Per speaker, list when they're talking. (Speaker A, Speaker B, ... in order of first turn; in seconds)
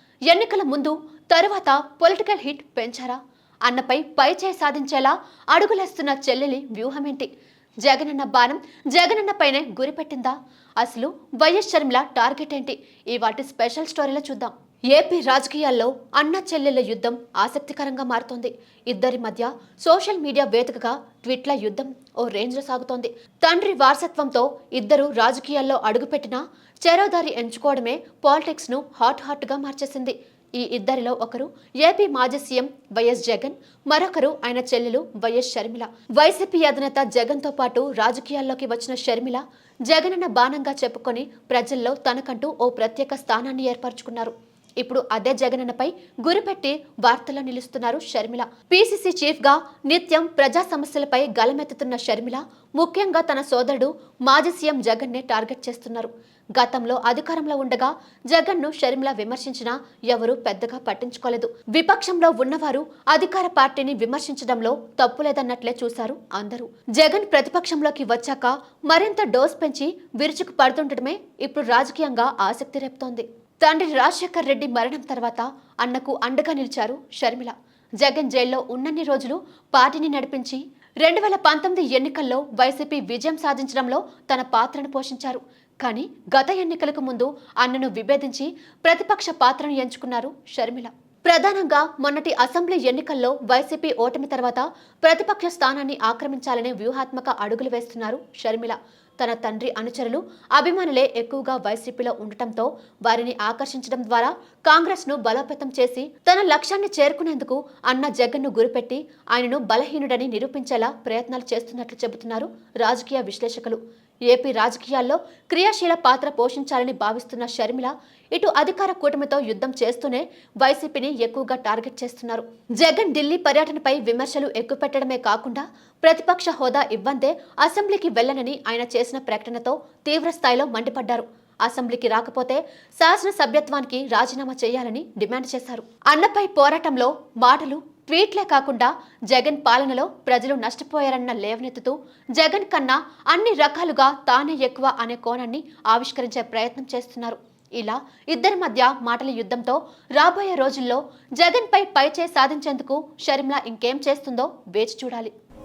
Speaker A: 0.3-7.3, 7.8-113.8, 114.3-155.3